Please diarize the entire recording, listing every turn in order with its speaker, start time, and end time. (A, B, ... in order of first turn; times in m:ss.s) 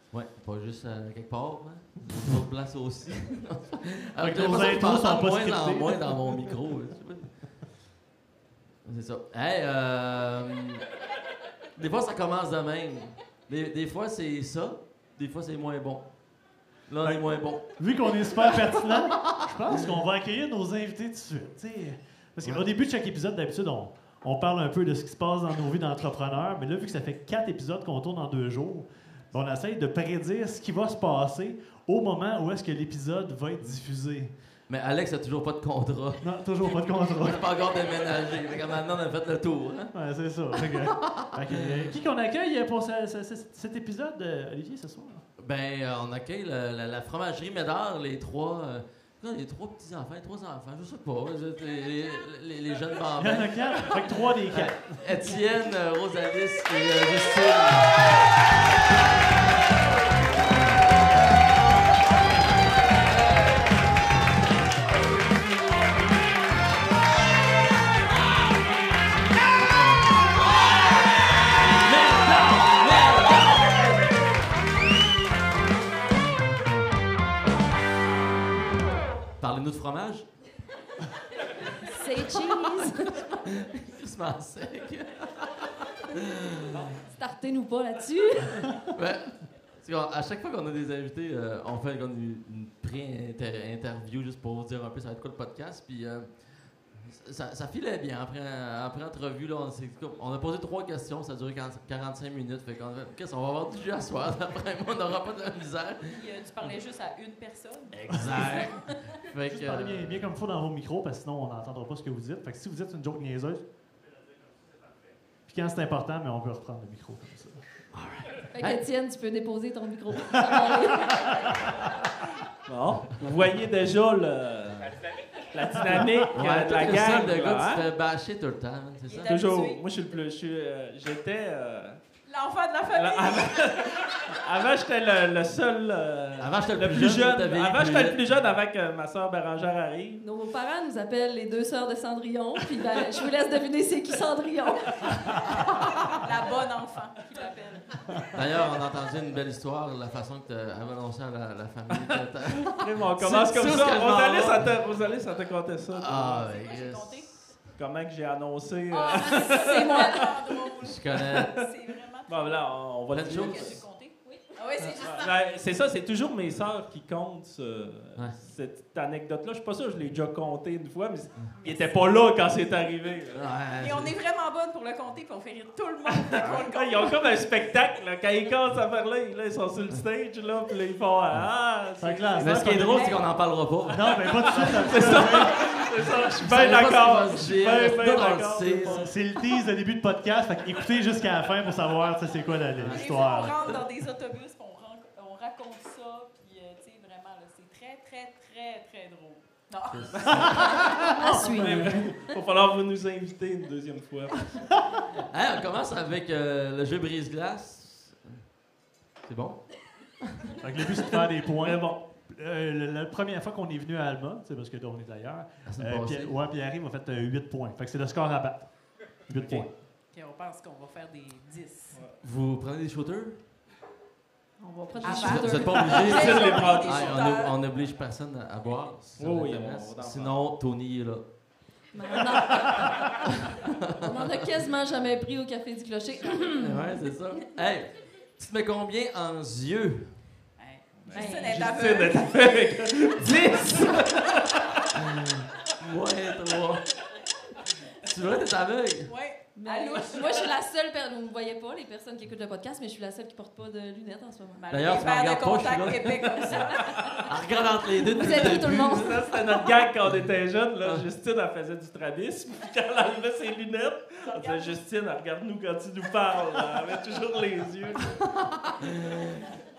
0:00.1-0:07.8 A
0:02.0-0:02.4 B
0:04.2-0:06.5 B
0:08.8-0:10.8 A
0:11.7-0:17.9 A
0:17.0-0:34.4 B
0:34.7-0:41.9 A
0:36.2-0:37.5 B
0:39.9-0:45.2 B
0:45.4-0:58.1 A
0:53.2-0:55.2 B
1:11.8-1:14.1 A
1:19.4-1:20.3 A
1:21.8-1:23.4 C
1:23.3-1:26.9 A
1:27.1-1:28.8 C
1:28.9-1:46.8 A
1:46.1-1:48.8 D
1:47.9-1:50.3 A
1:48.1-1:48.4 B
1:49.5-1:53.7 B
1:55.5-1:57.8 B
1:57.9-1:58.8 A
1:58.5-2:01.4 C
2:02.6-2:07.8 E
2:06.3-2:09.4 A
2:09.0-2:10.0 D
2:09.2-2:12.0 E
2:12.2-2:13.8 D
2:12.9-2:20.2 E
2:16.4-2:18.2 A
2:20.2-2:25.6 C
2:26.1-2:28.3 D
2:28.3-2:35.0 A
2:31.9-2:36.5 E
2:35.9-2:37.7 A
2:36.5-2:37.6 D
2:37.7-2:41.7 E
2:38.9-2:45.4 D
2:39.7-2:40.1 C
2:40.8-2:41.5 A
2:42.3-2:43.8 E
2:43.1-2:43.9 A
2:44.8-2:53.5 E
2:51.6-2:52.2 D
2:53.3-2:54.2 A
2:53.7-2:57.8 D
2:56.2-3:03.1 E
3:02.0-3:03.2 B
3:02.4-3:05.4 A
3:02.9-3:03.3 D
3:03.9-3:09.2 E
3:03.9-3:06.9 B
3:06.1-3:09.1 A
3:08.6-3:13.6 B
3:12.8-3:13.8 A
3:12.9-3:20.8 D
3:19.9-3:20.8 A
3:20.1-3:20.7 E
3:20.3-3:22.1 B
3:21.1-3:22.4 C
3:21.4-3:24.8 E
3:25.3-3:28.5 A
3:29.2-3:30.1 A
3:30.6-3:39.7 B
3:31.6-3:32.0 E
3:35.6-3:36.4 A
3:39.3-3:39.7 E
3:40.1-3:42.0 D
3:41.9-3:42.2 E
3:42.2-3:43.5 A
3:44.6-3:46.4 C
3:45.0-3:47.6 D
3:45.0-3:51.8 A
3:45.0-3:47.4 E
3:49.2-3:50.4 E
3:51.9-3:53.1 C
3:53.9-3:54.2 A
3:54.0-3:56.9 C
3:56.5-4:00.2 A
4:00.6-4:02.9 D
4:01.0-4:04.8 E
4:01.1-4:01.7 C
4:05.1-4:07.0 A
4:08.0-4:09.1 A
4:09.0-4:10.5 D
4:09.6-4:14.6 C
4:14.6-4:17.3 D
4:14.7-4:19.2 A
4:16.9-4:17.2 C
4:18.1-4:19.8 C
4:18.4-4:28.2 E
4:20.1-4:21.0 A
4:24.3-4:24.8 D
4:28.6-4:29.4 A